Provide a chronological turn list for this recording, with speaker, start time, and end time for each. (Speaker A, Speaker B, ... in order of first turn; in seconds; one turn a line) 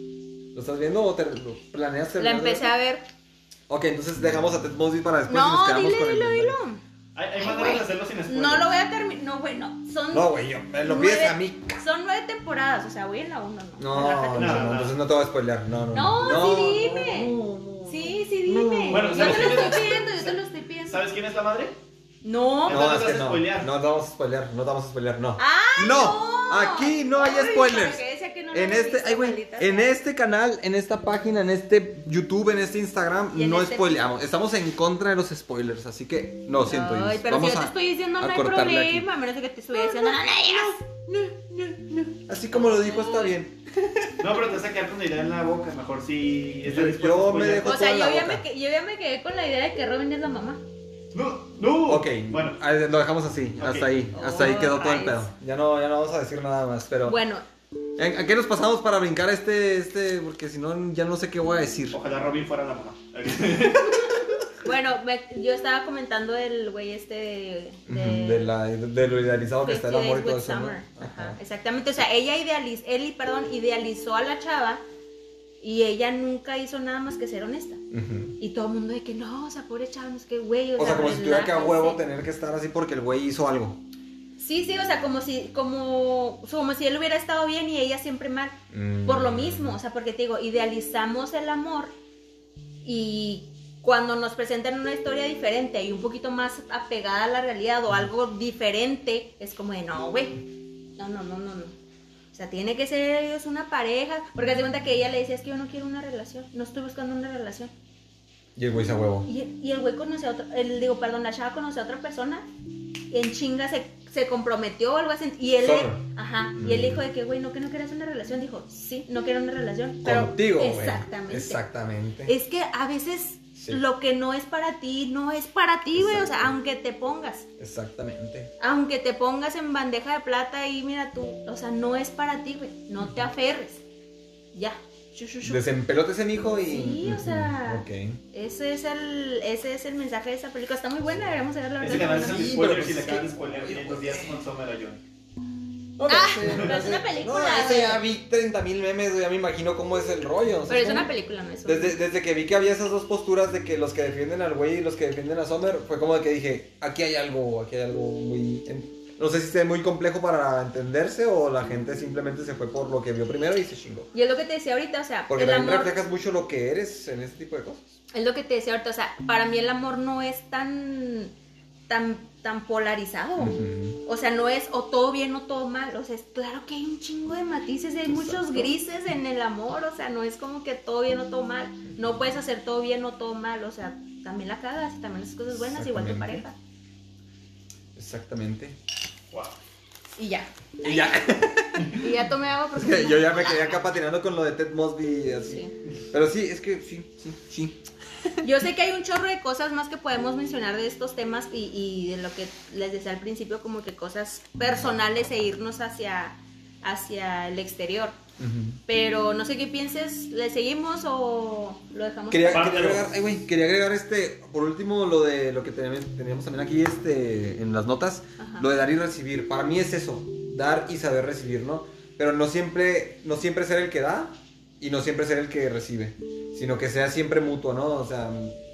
Speaker A: 0.5-2.7
Speaker B: 2.2-3.1
Speaker A: 3.7-6.6
Speaker B: 5.3-6.8
Speaker C: 7.1-8.7
Speaker B: 7.4-14.8
Speaker A: 10.1-11.8
Speaker A: 13.8-19.8
Speaker C: 14.3-15.0
Speaker B: 15.9-17.3
Speaker B: 17.9-21.0
Speaker C: 18.9-20.3
Speaker C: 20.8-21.7
Speaker B: 22.2-23.0
Speaker C: 22.6-23.7
Speaker A: 22.7-39.1
Speaker B: 25.4-29.9
Speaker B: 33.3-33.9
Speaker B: 36.6-40.8
Speaker A: 39.8-44.2
Speaker B: 42.5-43.4
Speaker C: 44.2-47.8
Speaker A: 46.7-48.4
Speaker B: 47.6-50.6
Speaker C: 51.1-52.6
Speaker A: 51.9-57.2
Speaker C: 53.6-53.9
Speaker B: 54.1-55.3
Speaker B: 57.0-57.4
Speaker A: 58.0-62.0
Speaker C: 61.9-64.2
Speaker B: 64.6-68.5
Speaker A: 67.9-71.4
Speaker B: 69.6-74.8
Speaker B: 75.6-77.8
Speaker A: 77.9-78.3
Speaker B: 78.4-82.0
Speaker A: 80.8-83.8
Speaker B: 84.4-91.9
Speaker A: 88.7-89.8
Speaker B: 92.8-100.4
Speaker B: 101.0-101.8
Speaker B: 102.3-107.7
Speaker A: 108.5-109.3
Speaker B: 109.2-112.5
Speaker B: 113.1-121.6
Speaker A: 115.6-116.0
Speaker A: 116.5-117.0
Speaker A: 120.0-122.3
Speaker B: 122.2-127.5
Speaker A: 123.5-123.8
Speaker A: 125.9-126.5
Speaker A: 127.6-128.5
Speaker B: 128.6-133.8
Speaker B: 134.5-135.6
Speaker A: 135.4-138.2
Speaker B: 136.4-142.5
Speaker C: 141.8-145.0
Speaker A: 141.9-144.3
Speaker A: 146.0-151.1
Speaker B: 146.1-148.0
Speaker C: 146.5-146.7
Speaker B: 150.7-152.0
Speaker A: 151.6-164.1
Speaker B: 164.1-165.9
Speaker A: 165.3-168.0
Speaker B: 168.1-171.3
Speaker B: 171.9-186.6
Speaker A: 173.4-174.0
Speaker A: 178.1-178.7
Speaker A: 185.5-186.4
Speaker A: 187.9-188.8
Speaker B: 190.2-191.2
Speaker A: 190.8-192.0
Speaker B: 191.9-193.8
Speaker A: 192.8-198.3
Speaker B: 195.4-195.7
Speaker B: 198.4-208.2
Speaker A: 208.4-208.8
Speaker B: 208.9-212.8
Speaker A: 212.3-228.6
Speaker C: 212.5-213.1
Speaker B: 218.4-218.7